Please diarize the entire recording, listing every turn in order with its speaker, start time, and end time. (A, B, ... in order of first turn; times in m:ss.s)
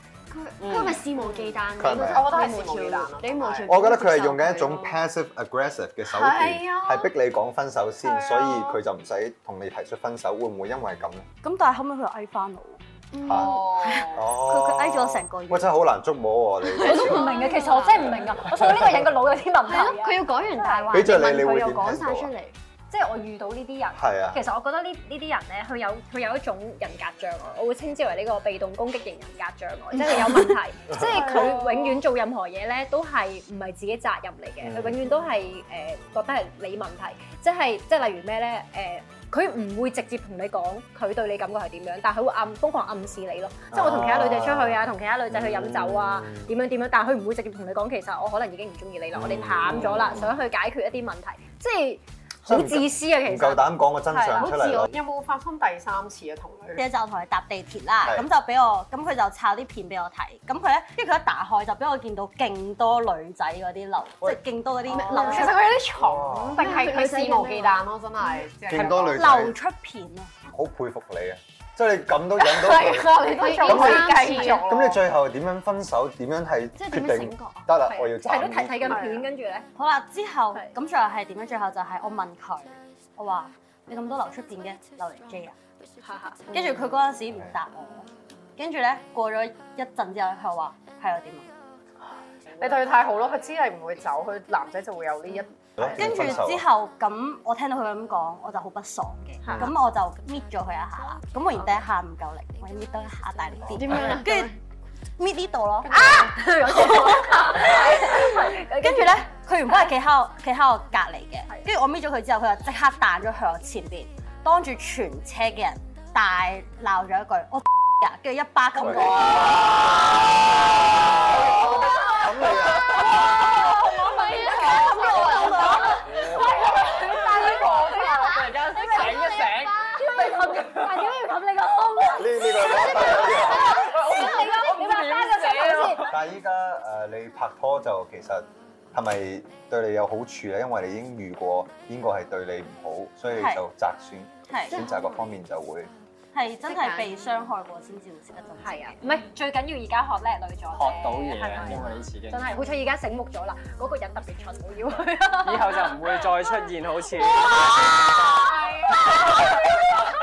0:00.3-0:05.0 A
0:00.6-0:01.0 B
0:01.1-0:03.7 C
0:01.8-0:02.3 D
0:03.7-0:11.3 D
0:06.0-0:07.1 C
0:08.0-0:08.8 C
0:11.4-0:12.8 E
0:13.1-0:13.7 A
0:13.2-0:17.4 D
0:13.3-0:14.2 C
0:13.8-0:15.7 E
0:16.7-0:18.3 A
0:16.8-0:21.1 F
0:18.1-0:19.0 D
0:19.6-0:22.6 A
0:20.9-0:22.3 D
0:22.9-0:53.7 F
0:23.9-0:24.4 D
0:30.9-0:32.0 C
0:34.6-0:35.0 D
0:43.7-0:46.5 D
0:49.1-0:50.4 D
0:52.4-0:54.9 D
0:54.1-0:56.8 C
0:56.8-1:05.6 E
1:04.9-1:09.4 C
1:04.9-1:05.3 A
1:05.9-1:06.7 D
1:06.6-1:07.8 A
1:08.7-1:09.6 D
1:09.1-1:10.3 E
1:10.5-1:19.0 D
1:12.4-1:15.0 C
1:13.3-1:14.6 A
1:16.7-1:17.7 A
1:17.8-1:19.7 F
1:18.9-1:19.2 C
1:19.8-1:25.6 E
1:26.0-1:26.5 F
1:26.5-1:31.5 E
1:32.6-1:36.4 C
1:35.8-1:36.6 D
1:35.8-1:44.6 E
1:39.4-1:39.7 A
1:43.7-1:44.2 D
1:43.7-1:44.6 A
1:45.2-2:00.3 E
1:45.8-1:49.9 F
1:58.8-2:00.1 D
2:01.2-2:03.1 D
2:02.0-2:16.1 F
2:02.9-2:11.0 B
2:04.1-2:05.9 C
2:04.9-2:05.9 E
2:05.1-2:05.6 A
2:06.0-2:06.9 D
2:07.3-2:07.6 C
2:08.7-2:10.2 A
2:12.1-2:13.9 D
2:13.4-2:16.2 B
2:16.1-2:25.9 D
2:23.3-2:23.6 E
2:24.5-2:24.8 E
2:24.7-2:25.2 A
2:26.3-2:29.0 E
2:26.6-2:27.1 A
2:28.6-2:36.2 F
2:30.7-2:32.5 B
2:35.4-2:38.5 B